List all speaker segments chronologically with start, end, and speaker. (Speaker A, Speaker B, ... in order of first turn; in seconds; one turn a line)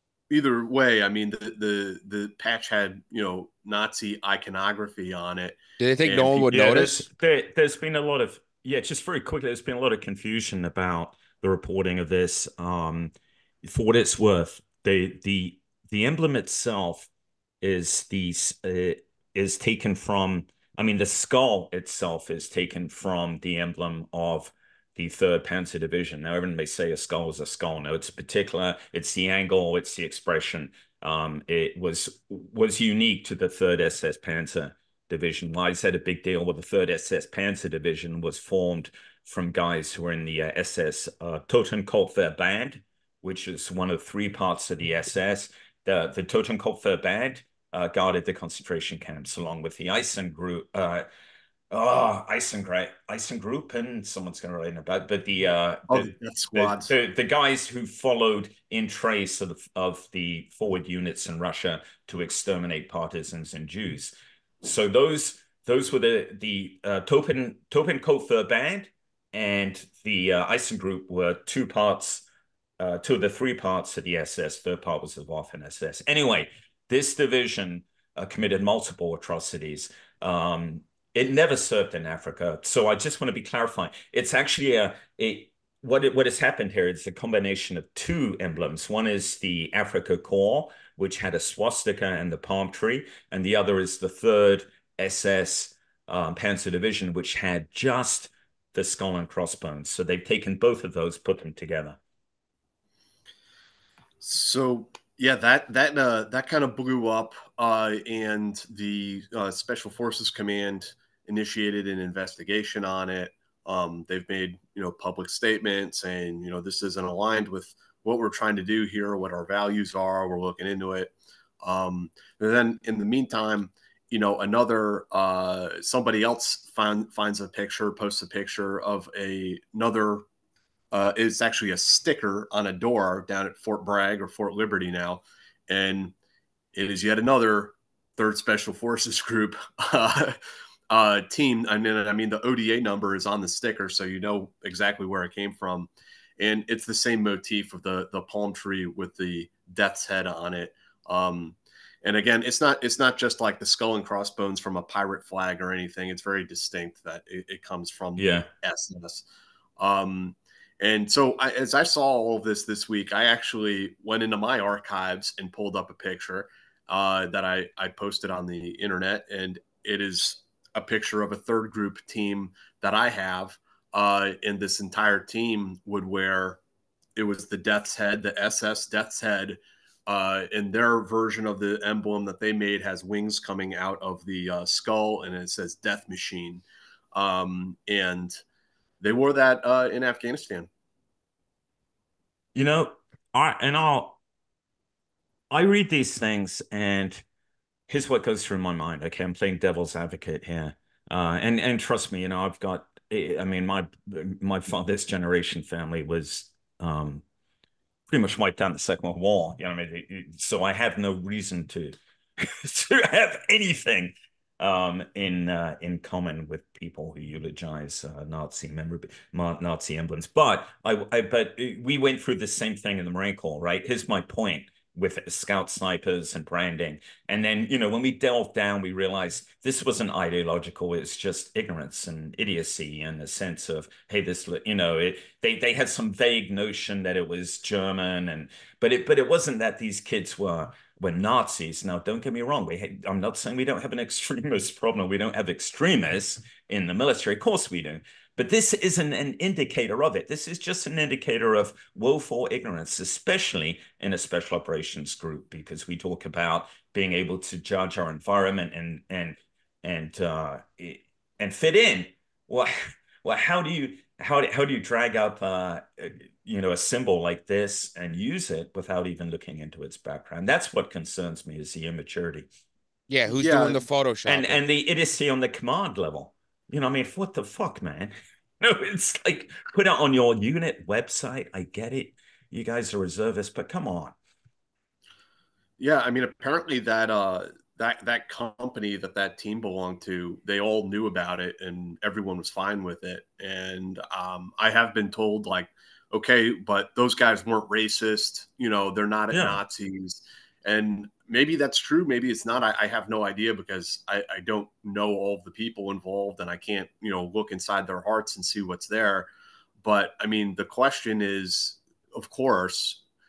Speaker A: 0.3-7.1
Speaker B: 5.8-7.0
Speaker C: 6.8-13.1
Speaker C: 13.6-17.1
Speaker C: 17.6-51.1
Speaker C: 51.7-72.2
Speaker A: 55.9-56.9
Speaker C: 72.8-102.0
Speaker A: 104.2-130.3
Speaker A: 130.9-136.1
Speaker A: 136.7-140.4
Speaker A: 140.9-159.2
Speaker C: 158.2-158.5
Speaker A: 159.8-176.6
Speaker A: 177.2-186.6
Speaker A: 187.2-188.4
Speaker A: 189.0-190.7
Speaker C: 192.6-194.2
Speaker C: 195.5-197.2
Speaker C: 197.9-207.2
Speaker C: 208.1-272.5
Speaker B: 273.1-274.6
Speaker A: 273.3-273.8
Speaker C: 274.2-284.1
Speaker A: 285.8-309.3
Speaker C: 299.3-299.6
Speaker A: 309.8-313.0